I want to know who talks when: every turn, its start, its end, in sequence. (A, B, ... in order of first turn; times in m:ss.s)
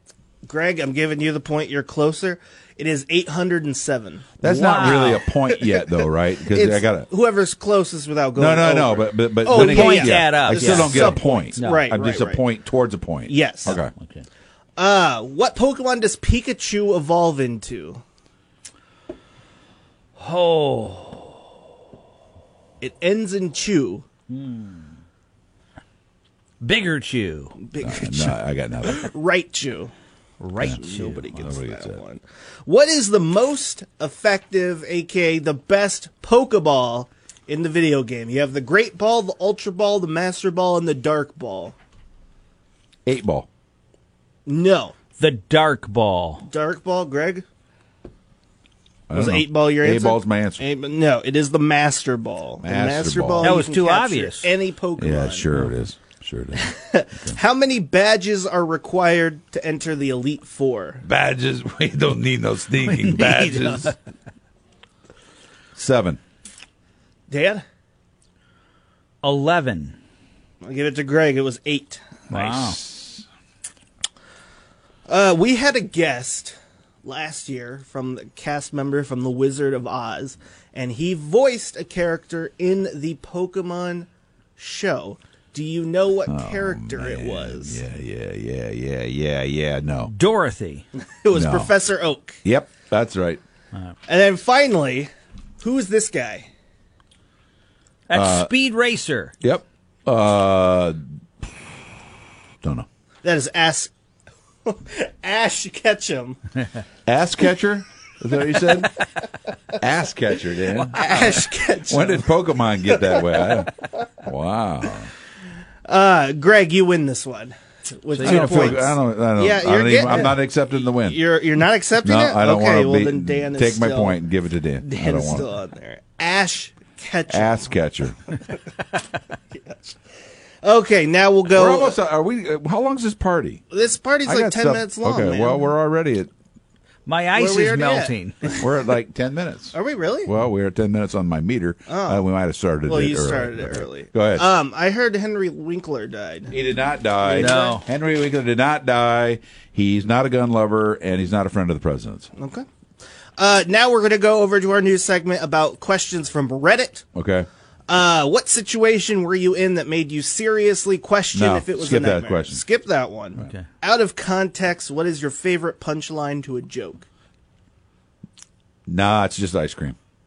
0:00.4-0:04.3 A
0:04.4-0:07.1 B
0:04.4-0:05.2 C
0:05.0-0:05.8 A
0:06.4-0:12.4 A
0:08.4-0:13.9 B
0:09.5-0:11.9 C
0:13.3-0:13.8 A
0:13.6-0:14.2 C
0:14.8-0:18.0 A
0:20.2-0:21.3 C
0:22.8-0:24.0 A
0:24.3-0:24.8 C
0:26.6-0:27.6 C
0:27.6-0:29.9 A
0:27.8-0:29.1 B
0:30.4-0:31.5 C
0:30.6-0:41.7 A
0:31.3-0:32.0 B
0:43.0-0:43.5 B
0:44.4-0:44.9 A
0:45.2-0:46.5 C
0:46.4-0:47.4 A
0:49.1-0:50.6 B
0:49.1-0:55.4 A
0:52.6-0:53.6 B
0:53.4-0:54.5 C
0:55.0-0:57.4 B
0:56.6-1:01.0 A
1:01.0-1:03.9 B
1:02.8-1:04.0 C
1:05.7-1:06.2 B
1:07.3-1:07.6 A
1:09.2-1:10.0 C
1:10.6-1:12.2 A
1:12.3-1:12.8 C
1:12.3-1:13.2 B
1:15.1-1:27.8 A
1:26.3-1:30.1 B
1:30.1-1:30.8 C
1:30.9-1:32.4 A
1:31.3-1:31.7 B
1:32.4-1:33.4 B
1:34.1-1:36.5 A
1:38.1-1:39.3 C
1:38.1-1:38.5 B
1:39.4-1:41.0 B
1:42.6-1:42.9 B
1:43.2-1:43.9 A
1:44.6-1:46.4 A
1:47.0-1:49.1 B
1:49.7-1:55.1 B
1:50.8-1:53.7 A
1:55.8-2:04.2 A
1:58.2-1:58.8 C
1:58.2-2:01.2 B
2:02.0-2:05.5 B
2:04.8-2:07.7 A
2:07.3-2:08.3 B
2:09.5-2:10.0 A
2:10.6-2:12.0 A
2:11.5-2:13.6 B
2:13.7-2:15.7 A
2:14.2-2:16.3 B
2:17.0-2:18.5 C
2:17.4-2:18.6 A
2:18.6-2:24.4 B
2:19.7-2:20.3 A
2:21.9-2:22.3 A
2:22.8-2:26.5 A
2:26.5-2:32.3 B
2:27.2-2:27.8 A
2:27.3-2:27.8 C
2:32.4-2:32.6 A
2:33.4-2:37.0 A
2:37.1-2:37.5 B
2:37.9-2:47.0 A
2:41.3-2:42.6 B
2:43.4-2:43.7 C
2:48.9-2:50.0 B